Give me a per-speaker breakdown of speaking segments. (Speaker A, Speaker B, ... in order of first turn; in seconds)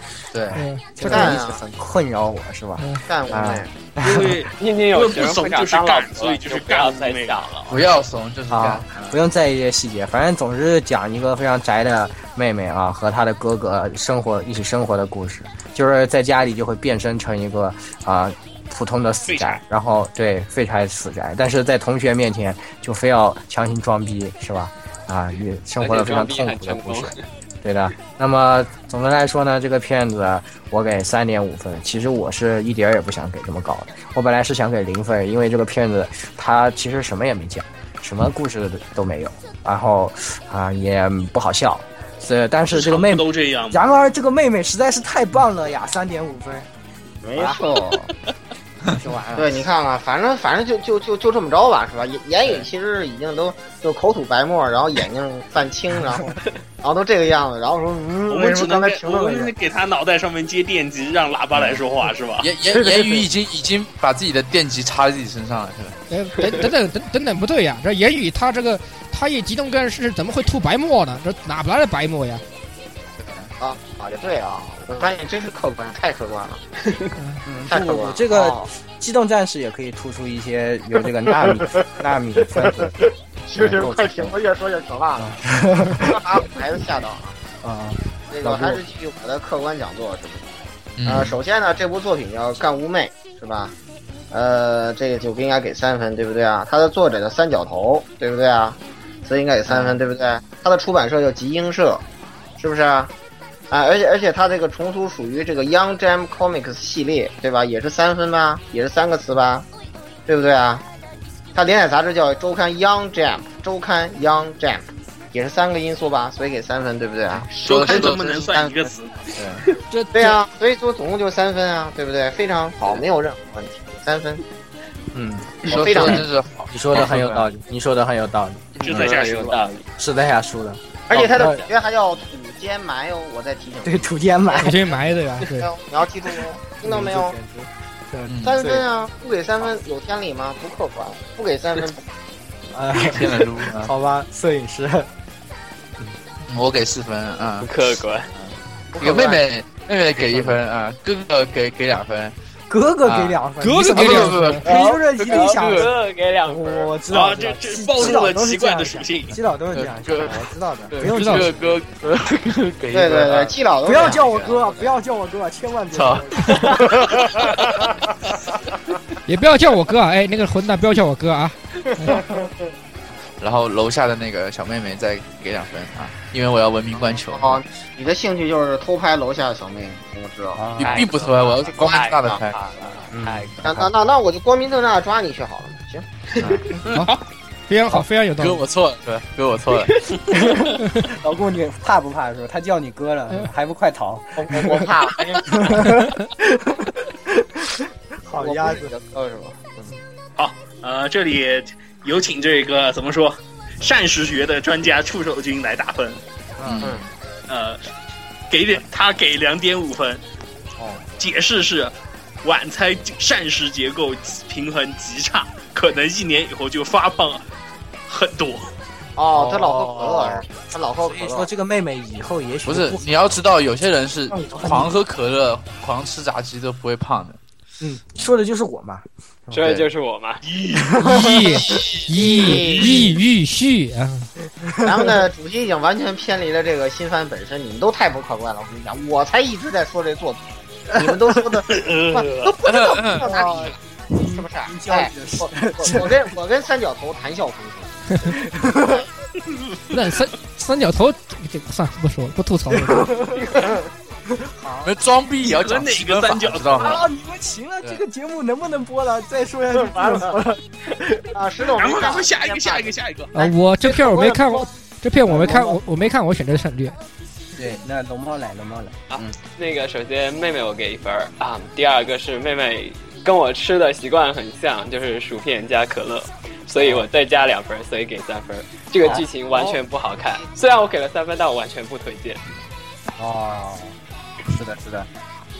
Speaker A: 0.3-0.6, 7.7-9.2, 62.4-66.0, 73.2-73.5, 91.0-91.4, 117.6-118.5, 125.7-127.5, 138.3-138.6, 142.9-143.9, 146.5-152.3, 153.0-155.9, 159.7-164.6, 165.9-167.8, 173.4-177.6, 180.8-182.6, 188.4-190.0, 206.6-207.1, 222.7-227.4, 229.6-229.9, 242.7-243.3, 254.8-257.0
Speaker B: 0.5-4.5, 8.5-46.7, 47.4-47.6, 49.0-49.5, 77.5-83.0, 83.5-84.4, 85.2-86.2, 87.6-88.8, 99.7-100.0, 119.3-119.6, 125.1-129.1, 130.0-131.6, 133.8-134.8, 136.8-138.9, 142.7-145.1, 150.2-150.6, 152.7-155.9, 156.5-161.8, 163.8-167.2, 180.6-181.1, 183.1-183.9, 190.3-194.9, 195.5-198.9, 206.6-206.9, 210.8-211.1, 219.3-220.4, 221.0-223.1, 224.3-224.9, 227.8-229.6, 230.7-231.3, 234.6-235.2, 243.2-246.3, 248.3-249.1, 252.7-253.8, 254.3-254.9, 256.8-261.3, 265.3-265.8, 267.6-269.3, 276.8-277.1, 279.0-279.8, 283.2-283.9, 284.5-285.1
Speaker C: 0.6-1.3, 2.8-3.0, 66.1-72.4, 77.2-77.4, 119.9-120.4, 134.6-135.7, 153.6-154.6, 161.0-161.5, 169.3-172.2, 187.7-188.6, 231.0-234.3, 249.9-253.1, 263.3-267.0
Speaker D: 1.0-1.6, 3.1-3.8, 47.2-48.1, 49.4-59.5, 73.6-76.6, 77.7-78.7, 82.6-82.9, 83.5-85.4, 86.0-87.4, 88.3-90.5, 91.1-93.8, 94.3-102.0, 102.6-103.1, 103.7-109.7, 110.3-110.8, 111.5-118.9, 120.1-124.4, 125.7-126.3, 131.1-135.0, 135.6-137.3, 138.4-142.0, 149.0-149.4, 162.9-164.6, 172.2-172.5, 177.2-180.6, 181.8-182.4, 183.6-186.1, 194.4-195.8, 198.4-200.0, 219.2-221.5, 231.7-233.2, 234.8-248.1, 259.9-260.3, 261.3-264.7
Speaker E: 4.0-7.4, 19.3-19.6, 42.7-43.8, 58.3-62.5, 117.5-119.1, 128.8-129.6, 157.1-159.4, 200.4-206.2, 207.5-207.9, 208.5-210.2, 211.2-217.4, 218.1-218.7, 230.5-230.9, 241.7-242.5, 255.4-257.1, 261.7-263.3
Speaker F: 4.5-7.9, 25.8-27.2, 128.8-129.9, 147.6-148.3, 154.7-157.0, 180.8-183.7, 229.5-230.4, 269.1-282.5